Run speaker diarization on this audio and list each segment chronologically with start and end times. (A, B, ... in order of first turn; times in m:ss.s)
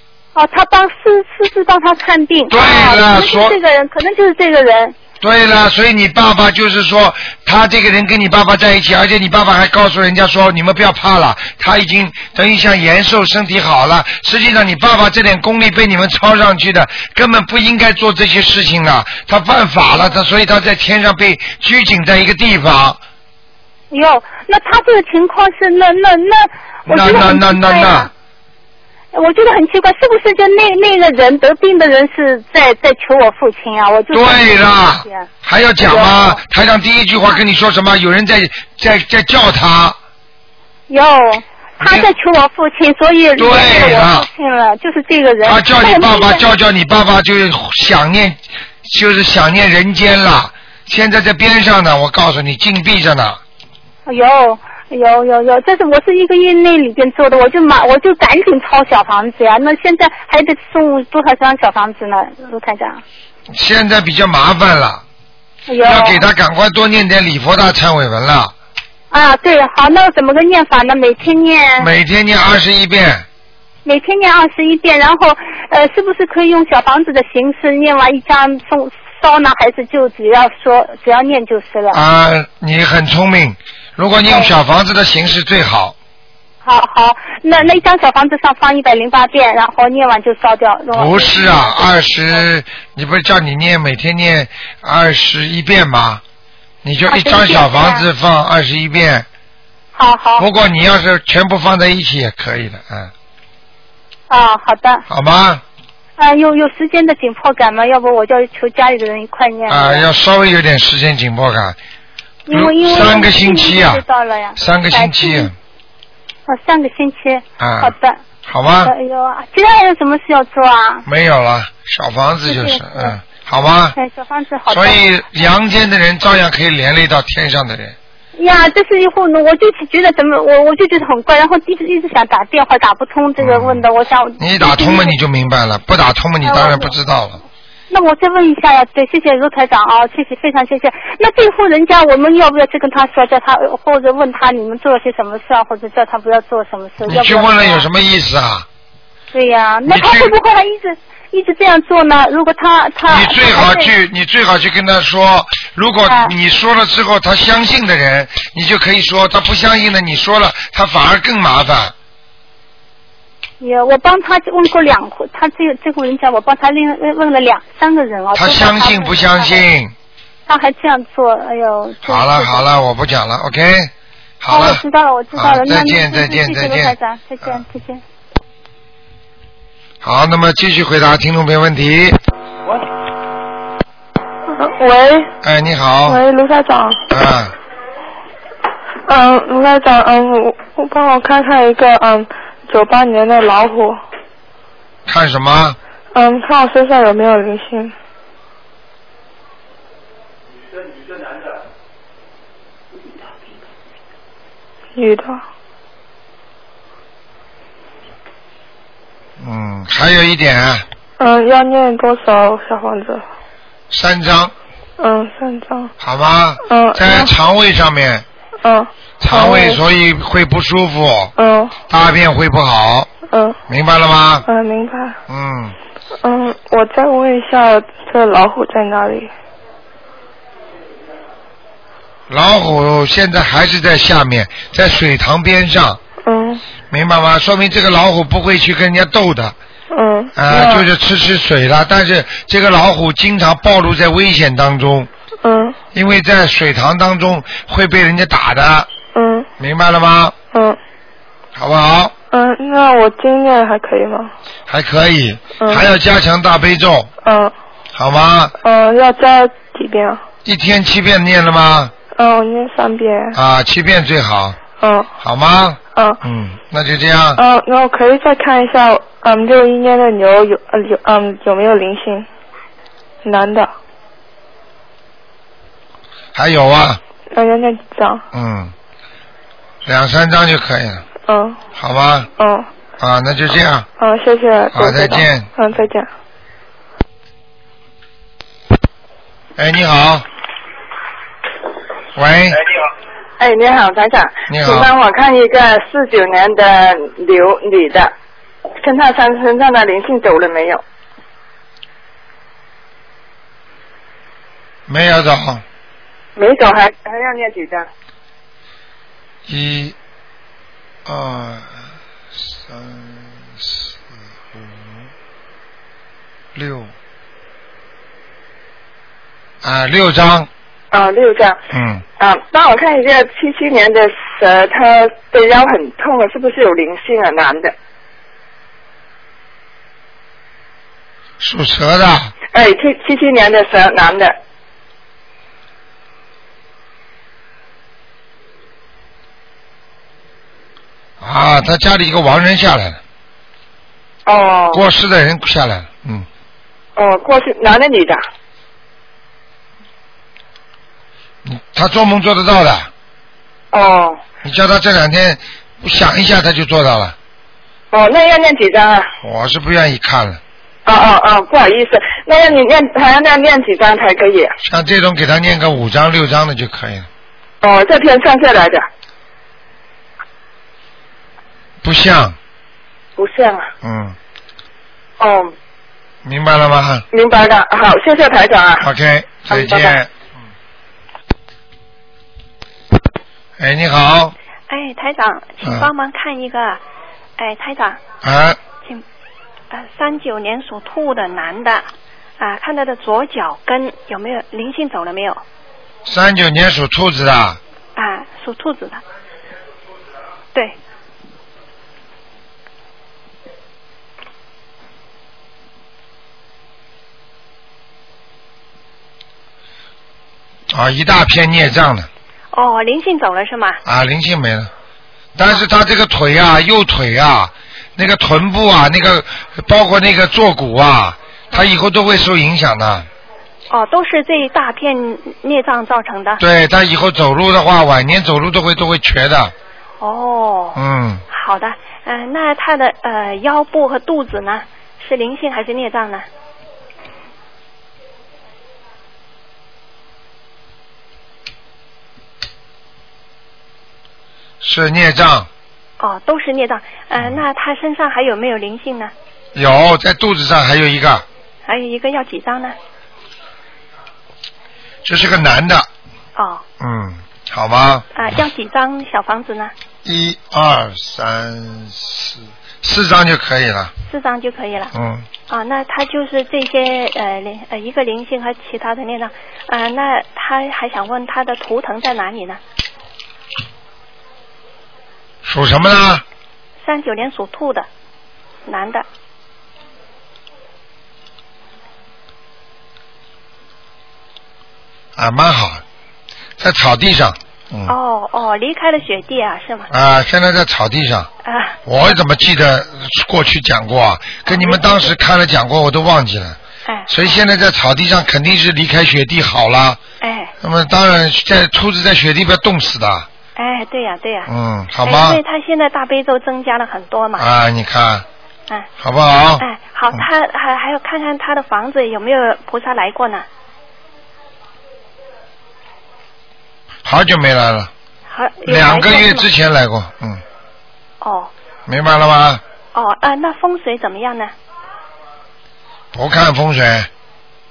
0:00.4-0:05.0 A
0:02.5-0:03.6 B
0:05.2-0:23.0 B
0:23.9-0:28.1 A
0:26.9-0:28.1 B
0:29.1-0:35.3 A
0:34.1-0:40.0 B
0:35.8-0:36.4 A
0:40.9-0:46.4 A
0:41.8-0:42.1 B
0:43.4-0:44.3 B
0:45.4-0:53.4 B
0:54.1-1:03.0 A
1:03.5-1:05.0 B
1:05.7-1:06.3 A
1:05.8-1:08.5 B
1:09.1-1:11.9 A
1:11.8-1:13.3 B
1:13.8-1:22.0 A
1:21.9-1:26.0 B
1:24.3-1:24.5 A
1:26.6-1:32.4 A
1:30.9-1:36.2 B
1:36.8-1:39.3 B
1:37.1-1:38.1 A
1:40.0-1:40.5 A
1:40.4-1:43.1 B
1:44.3-1:45.0 A
1:45.1-1:45.6 B
1:46.2-1:50.1 A
1:49.7-1:51.8 B
1:52.5-1:55.5 A
1:52.5-1:54.0 B
1:54.6-1:55.5 B
1:56.5-1:58.2 A
1:57.6-1:57.9 B
1:58.5-1:58.9 B
1:58.8-2:01.0 A
2:01.1-2:04.0 B
2:02.4-2:03.2 A
2:04.0-2:05.0 A
2:04.7-2:08.0 B
2:08.4-2:15.2 A
2:13.4-2:13.8 B
2:14.4-2:17.4 B
2:16.4-2:16.9 A
2:17.9-2:27.9 A
2:27.1-2:28.7 B
2:29.3-2:33.9 A
2:29.9-2:30.3 B
2:33.1-2:41.9 B
2:36.1-2:36.3 A
2:43.6-2:49.6 A
2:48.4-2:49.9 B
2:50.5-2:52.7 A
2:52.0-2:54.8 B
2:54.5-2:58.0 A
2:55.4-2:57.0 B
3:00.0-3:02.2 B
3:04.5-3:05.3 C
3:05.4-3:06.2 B
3:06.1-3:07.0 C
3:07.1-3:07.5 B
3:09.1-3:14.0 C
3:15.1-3:15.8 B
3:16.1-3:18.0 C
3:25.0-3:25.4 C
3:29.4-3:30.8 B
3:31.2-3:33.2 C
3:33.9-3:34.5 B
3:35.0-3:35.9 C
3:36.0-3:38.2 B
3:36.6-3:37.3 C
3:38.6-3:39.8 C
3:39.2-3:41.3 B
3:41.4-3:41.8 C
3:41.9-3:43.1 B
3:43.3-3:43.6 C
3:43.7-3:44.5 B
3:44.5-3:45.2 C
3:45.3-3:45.8 B
3:46.2-3:49.3 C
3:52.3-3:56.0 B
3:56.2-3:56.6 C
3:56.9-3:59.6 B
3:59.9-4:00.9 C
4:00.4-4:05.1 B
4:05.4-4:05.8 C
4:05.9-4:08.9 B
4:09.1-4:09.5 C
4:09.6-4:10.4 B
4:10.5-4:10.8 C
4:11.6-4:12.1 B
4:12.3-4:14.3 C
4:14.7-4:17.1 B
4:15.6-4:15.9 C
4:17.2-4:17.5 C
4:18.0-4:18.5 B
4:18.6-4:20.2 C
4:20.4-4:21.9 B
4:22.1-4:23.4 C
4:23.3-4:24.6 B
4:24.8-4:25.1 C
4:25.2-4:27.4 B
4:25.9-4:26.2 C
4:27.4-4:32.3 C
4:33.2-4:33.7 C
4:36.4-4:37.0 B
4:37.3-4:38.2 C
4:38.3-4:38.7 B
4:39.8-4:41.0 B
4:41.3-4:41.6 C
4:41.8-4:42.3 B
4:42.4-4:42.7 C
4:43.0-4:43.9 B
4:44.0-4:46.1 C
4:44.7-4:45.5 B
4:49.6-4:50.3 B
4:52.2-4:52.6 B
4:53.4-4:58.1 D
4:54.5-4:54.9 B
4:58.8-5:00.8 D
5:04.9-5:05.6 B
5:06.4-5:07.9 D
5:09.5-5:10.0 B
5:11.1-5:11.8 B
5:12.4-5:13.9 B
5:14.5-5:15.1 B
5:16.6-5:16.9 B
5:19.6-5:20.5 B
5:20.9-5:21.6 D
5:21.7-5:22.0 B
5:22.2-5:27.7 D
5:31.4-5:32.3 B
5:32.5-5:34.4 D
5:41.2-5:43.0 B
5:44.3-5:44.8 D
5:44.7-5:46.3 B
5:47.0-5:48.2 D
5:51.4-5:52.9 B
5:53.7-5:54.2 D
5:54.4-5:57.2 B
5:57.9-5:59.1 D
5:59.2-6:00.4 B
6:00.9-6:04.5 D
6:04.6-6:07.1 B
6:07.6-6:08.9 D
6:11.8-6:12.4 B
6:13.2-6:13.7 D
6:13.8-6:14.2 B
6:15.2-6:15.5 D
6:16.2-6:17.0 B
6:17.1-6:18.9 D
6:18.8-6:20.1 B
6:19.5-6:20.0 D
6:23.6-6:24.4 B
6:24.7-6:26.8 E
6:25.6-6:25.9 B
6:27.4-6:28.0 E
6:28.2-6:28.6 B
6:29.7-6:35.4 E
6:36.0-6:37.6 B
6:38.0-6:39.0 E
6:50.7-6:52.1 B
6:52.5-6:53.8 E
6:53.8-6:54.7 B
6:55.4-7:03.1 B
7:03.7-7:06.4 E
7:06.4-7:09.5 B
7:10.0-7:16.3 E
7:10.8-7:11.2 B
7:24.6-7:25.5 B
7:26.0-7:29.1 E
7:29.6-7:31.2 B
7:31.7-7:32.8 E
7:35.0-7:35.9 B
7:36.4-7:36.6 E
7:36.8-7:38.1 B
7:38.2-7:39.7 E
7:40.0-7:43.9 B
7:44.1-7:44.9 E
7:44.9-7:45.3 B
7:45.5-7:52.6 E
7:55.4-7:56.2 B
7:56.8-7:57.9 E
7:58.7-7:59.0 E
8:05.2-8:05.8 B
8:06.6-8:08.0 B
8:07.9-8:09.9 E
8:09.9-8:11.3 B
8:11.4-8:12.2 E
8:11.9-8:16.6 B
8:14.5-8:15.1 E
8:16.8-8:17.4 E
8:17.1-8:20.0 B
8:20.2-8:20.5 E
8:20.6-8:23.3 B
8:23.6-8:24.5 E
8:24.5-8:25.4 B
8:25.0-8:27.5 E
8:27.4-8:28.2 B
8:29.0-8:30.3 B
8:29.6-8:33.5 E
8:37.0-8:37.9 B
8:38.3-8:39.5 E
8:38.6-8:40.4 B
8:41.2-8:41.5 E
8:41.9-8:42.6 B
8:42.9-8:44.5 E
8:46.1-8:47.1 B